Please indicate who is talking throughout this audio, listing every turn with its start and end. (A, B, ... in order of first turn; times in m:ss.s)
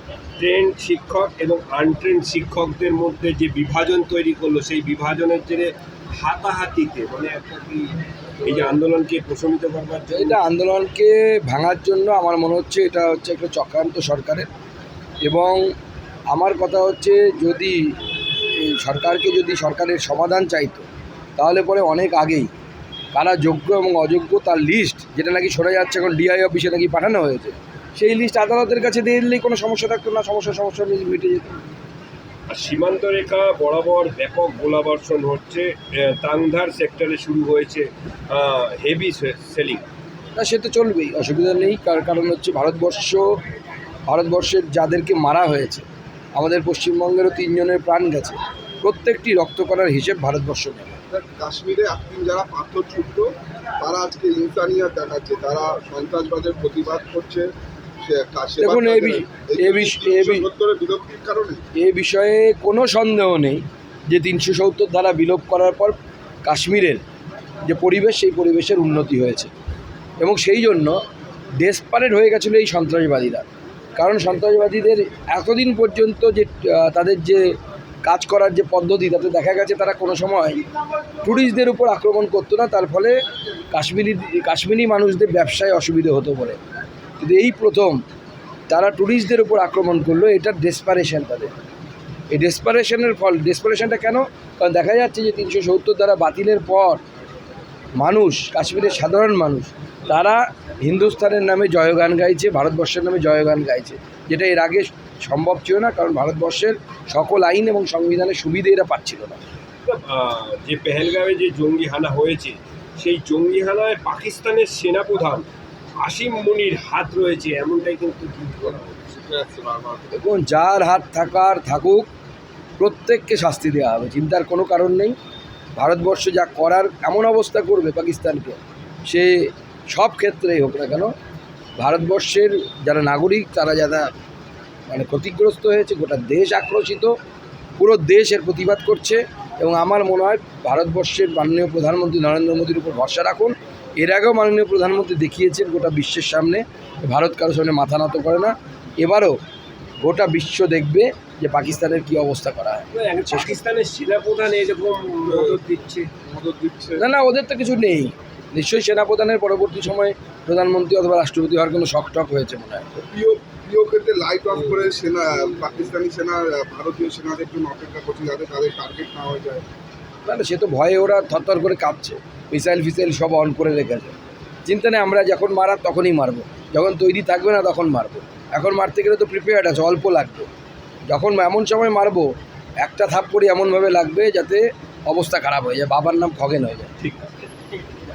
0:00.4-0:10.4 A
0:10.1-0:14.5 B
0:15.2-0:15.6 B
0:16.3-0:17.8 B
0:18.5-0:20.8 B
0:21.4-0:22.5 B
0:23.1-0:31.6 B
0:32.5-0:39.9 A
0:40.4-0:43.4 B
0:44.1-0:45.9 B
0:46.4-0:51.0 B
0:51.1-1:01.6 C
0:58.6-1:00.5 B
1:01.8-1:07.0 B
1:07.6-1:09.5 B
1:10.2-1:11.0 B
1:11.6-1:17.5 B
1:18.0-1:20.6 B
1:21.2-1:23.2 B
1:23.7-1:26.6 B
1:27.2-1:28.0 B
1:28.7-1:31.5 B
1:32.3-1:37.0 B
1:38.0-1:49.4 B
1:49.8-1:55.5 A
1:56.0-1:59.1 A
1:59.0-2:00.1 C
2:00.1-2:02.1 B
2:02.8-2:05.2 B
2:05.8-2:11.1 B
2:11.8-2:14.1 B
2:14.9-2:17.1 B
2:17.8-2:29.4 B
2:30.0-2:33.6 B
2:32.9-2:36.1 A
2:35.3-2:35.6 C
2:36.2-2:37.0 C
2:37.0-2:43.0 B
2:43.0-2:49.7 C
2:50.3-2:54.1 B
2:54.7-3:00.5 B
3:01.1-3:02.3 B
3:02.8-3:06.9 B
3:07.0-3:07.6 A